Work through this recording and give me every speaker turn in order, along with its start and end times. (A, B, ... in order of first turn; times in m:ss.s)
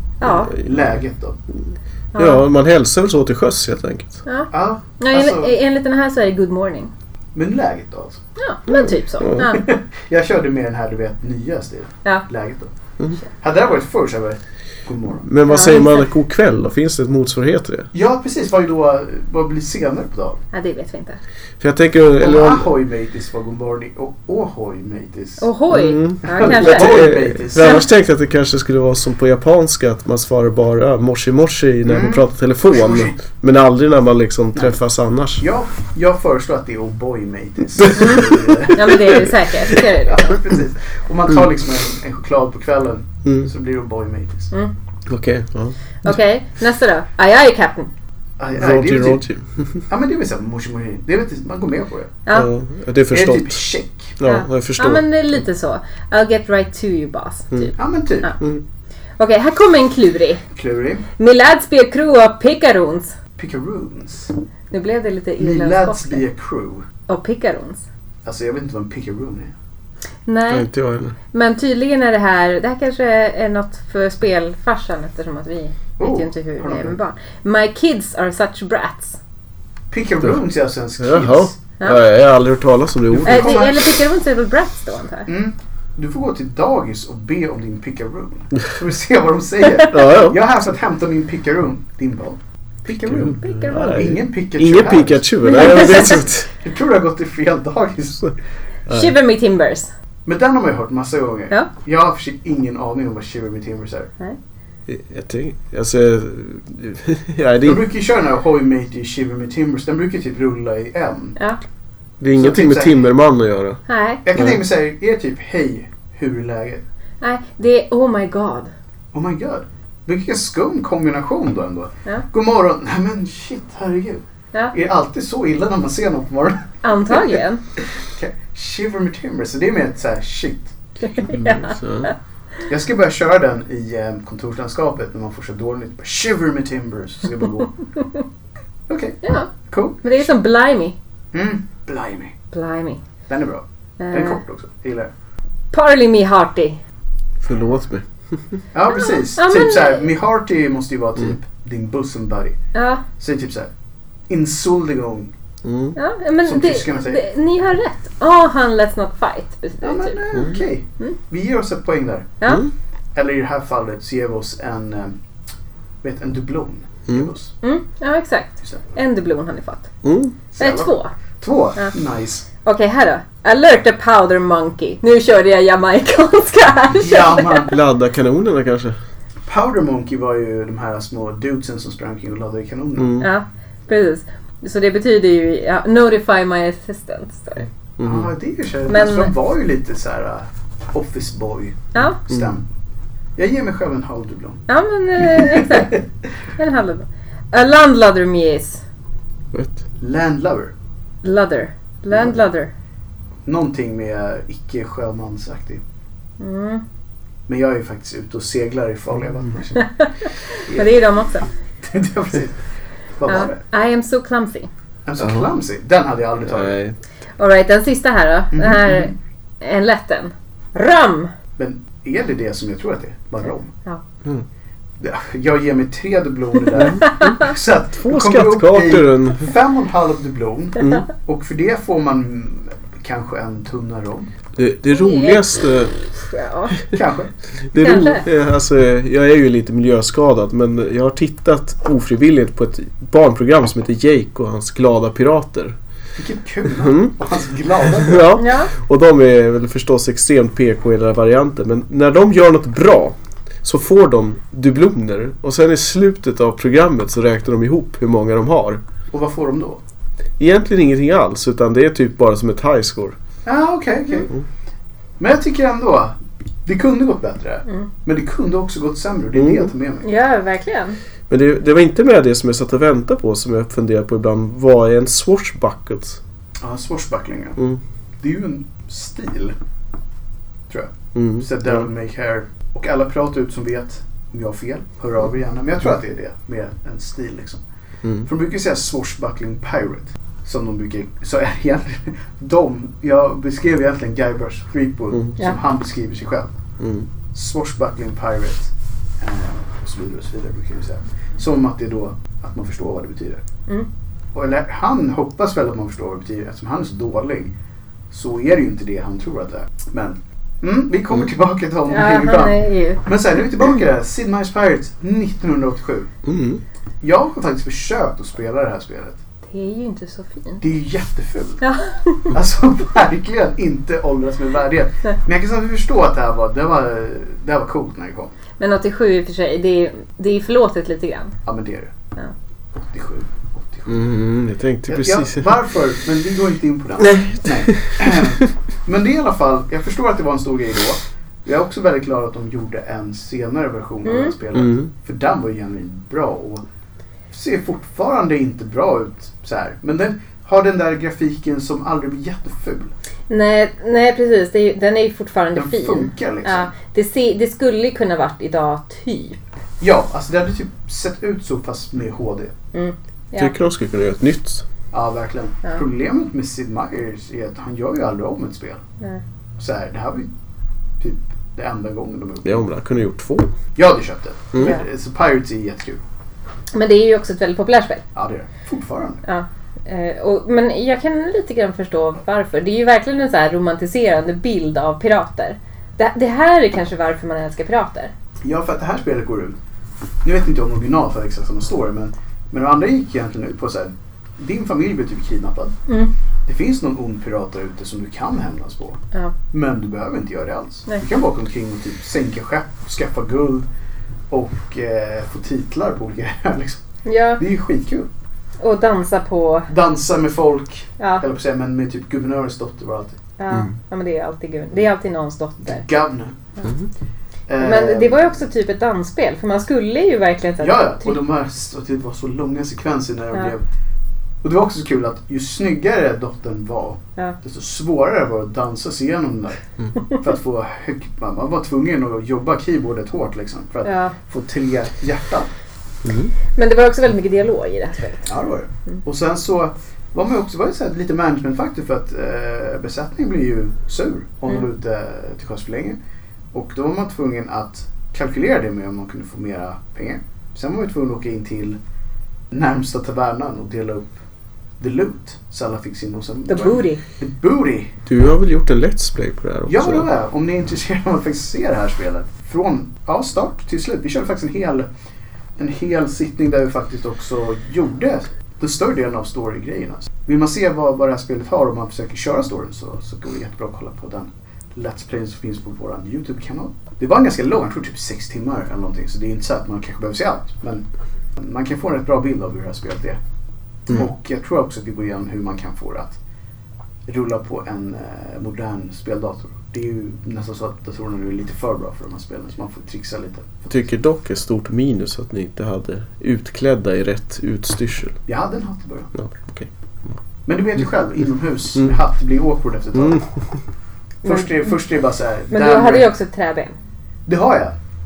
0:00.2-0:00.5 A
0:00.2-0:00.7 B
0:00.5-0:01.4 C
0:02.1-0:02.4 A
0:02.2-0:04.2 B
0:04.2-0:06.9 A
0:04.5-0:05.5 C
0:07.3-0:08.2 C
0:08.4-0:09.6 A
0:08.7-0:09.5 B
0:09.4-0:12.7 C
0:13.3-0:15.3 C
0:15.2-0:17.9 B
0:15.5-0:16.1 A
0:17.9-0:20.4 C
0:20.5-0:21.2 A
0:21.6-0:22.7 B
0:22.2-0:25.4 C
0:25.4-0:27.8 A
0:25.7-0:35.4 B
0:26.2-0:27.8 C
0:31.8-0:33.2 C
0:35.4-0:44.5 C
0:37.8-0:38.2 B
0:38.0-0:40.4 A
0:43.2-0:43.5 B
0:45.1-0:46.1 B
0:46.0-0:47.9 A
0:48.4-0:49.2 C
0:48.6-0:49.8 B
0:49.9-0:52.2 C
0:52.3-0:53.7 B
0:53.1-0:54.2 C
0:54.2-0:55.0 B
0:54.2-0:58.4 A
0:57.8-0:58.3 C
0:59.2-1:00.4 A
1:00.5-1:01.0 C
1:01.2-1:03.1 A
1:03.4-1:04.3 C
1:04.7-1:06.2 A
1:05.4-1:06.8 C
1:07.1-1:07.8 A
1:08.2-1:09.5 C
1:10.2-1:10.7 A
1:10.5-1:11.2 B
1:11.3-1:19.2 A
1:16.0-1:17.0 C
1:19.9-1:21.5 C
1:21.0-1:23.6 B
1:23.1-1:23.8 C
1:23.2-1:25.3 A
1:25.3-1:38.3 C
1:29.8-1:30.4 B
1:33.0-1:36.5 B
1:33.4-1:34.0 A
1:35.4-1:36.2 A
1:38.9-1:39.9 A
1:40.2-1:44.1 C
1:44.9-1:47.8 B
1:47.6-1:51.4 C
1:52.2-1:53.8 B
1:52.4-1:53.0 C
1:53.9-1:54.2 A
1:54.2-1:56.8 C
1:57.2-1:58.7 A
1:59.1-2:10.7 C
2:06.8-2:07.6 A
2:11.1-2:12.1 A
2:11.3-2:12.1 B
2:12.7-2:17.7 C
2:18.9-2:20.3 C
2:19.2-2:19.5 A
2:20.0-2:21.0 A
2:21.3-2:22.3 C
2:22.5-2:23.0 A
2:23.3-2:25.1 C
2:24.0-2:24.4 A
2:25.7-2:26.8 A
2:27.4-2:28.6 B
2:28.7-2:32.6 C
2:28.9-2:30.0 A
2:32.7-2:33.0 A
2:33.2-2:33.7 C
2:34.3-2:35.3 C
2:35.6-2:36.0 B
2:36.0-2:40.2 A
2:36.4-2:37.2 C
2:39.8-2:42.4 C
2:43.1-2:45.2 C
2:46.0-2:47.5 C
2:47.6-2:49.9 A
2:50.0-2:50.4 B
2:50.5-2:52.4 C
2:50.6-2:51.1 A
2:52.6-2:57.7 A
2:56.9-2:57.7 C
2:57.7-2:59.0 B
2:59.5-3:03.1 C
3:03.0-3:03.3 B
3:03.2-3:07.7 A
3:08.0-3:08.3 B
3:08.0-3:12.6 C
3:08.9-3:09.3 A
3:11.9-3:12.2 A
3:13.4-3:14.6 C
3:14.7-3:16.0 A
3:15.2-3:16.0 C
3:16.6-3:18.8 A
3:19.5-3:19.8 B
3:20.0-3:20.7 C
3:21.2-3:22.7 A
3:22.1-3:22.4 C
3:23.4-3:25.8 C
3:26.4-3:26.8 A
3:27.5-3:29.9 C
3:29.8-3:31.5 A
3:30.7-3:31.0 C
3:31.8-3:32.6 C
3:33.2-3:33.6 C
3:33.3-3:34.7 A
3:35.0-3:36.8 C
3:35.2-3:35.4 B
3:36.4-3:37.0 B
3:37.4-3:41.3 A
3:38.5-3:39.1 C
3:41.6-3:43.7 C
3:45.0-3:54.3 C
3:46.8-3:47.2 B
3:47.0-3:47.5 A
3:48.0-3:49.5 B
3:50.8-3:51.0 B
3:54.6-3:56.0 B
3:54.9-3:55.4 A
3:56.1-3:56.8 A
3:56.9-3:57.3 C
3:57.7-4:05.8 B
3:57.8-3:58.2 A
4:06.2-4:08.3 C
4:06.8-4:07.2 B
4:07.9-4:18.8 B
4:08.4-4:08.7 A
4:19.1-4:19.8 C
4:20.4-4:23.2 B
4:23.4-4:24.3 C
4:25.2-4:30.0 C
4:29.3-4:29.7 B
4:30.0-4:31.0 A
4:31.3-4:36.2 B
4:36.6-4:37.6 C
4:38.2-4:39.5 C
4:40.7-4:47.6 C
4:41.1-4:41.8 B
4:48.2-4:56.5 C
4:56.8-4:57.1 B
4:57.3-5:03.4 C
5:04.3-5:07.5 C
5:08.1-5:16.1 C
5:11.9-5:13.0 A
5:16.2-5:16.6 B
5:17.0-5:19.2 C
5:19.5-5:20.6 A
5:20.6-5:21.6 C
5:21.6-5:22.3 A
5:22.3-5:28.3 C
5:28.6-5:31.4 A
5:31.4-5:31.9 C
5:32.7-5:34.0 C
5:33.9-5:35.5 B
5:34.9-5:46.6 C
5:37.0-5:38.4 B
5:44.0-5:44.3 A
5:44.5-5:44.9 B
5:47.3-5:52.9 C
5:53.3-5:59.4 A
5:55.5-5:56.7 C
5:59.8-6:02.5 C
6:02.7-6:03.5 A
6:03.4-6:04.6 B
6:04.9-6:08.8 C
6:09.6-6:10.3 C
6:11.0-6:12.6 C
6:12.4-6:13.5 B
6:13.7-6:16.0 C
6:16.7-6:18.0 A
6:18.1-6:19.2 C
6:19.2-6:28.1 A
6:28.4-6:29.6 C
6:30.2-6:35.7 C
6:36.4-6:39.0 C
6:39.5-6:43.7 C
6:44.3-6:46.8 C
6:47.0-6:47.4 A
6:47.4-6:48.1 C
6:48.6-6:49.7 A
6:49.7-6:53.2 C
6:51.0-6:51.2 A
6:53.4-6:55.9 A
6:55.6-6:56.4 C
6:57.5-6:58.3 C
6:57.6-7:01.2 A
7:00.6-7:03.6 C
7:04.4-7:15.5 C
7:13.8-7:14.1 A
7:16.0-7:16.3 B
7:16.6-7:18.3 A
7:18.2-7:26.0 C
7:26.5-7:31.8 C
7:32.5-7:34.1 C
7:34.8-7:37.9 C
7:36.5-7:37.0 A
7:38.0-7:40.1 B
7:39.7-7:44.9 C
7:45.6-8:00.8 C
8:01.4-8:03.2 C
8:03.9-8:06.2 C
8:07.1-8:13.7 C
8:13.7-8:18.2 B
8:18.3-8:19.1 C
8:19.1-8:19.7 B
8:20.4-8:23.2 C
8:23.0-8:23.2 B
8:24.2-8:26.1 C
8:24.2-8:24.7 A
8:25.5-8:26.8 A
8:27.2-8:27.8 C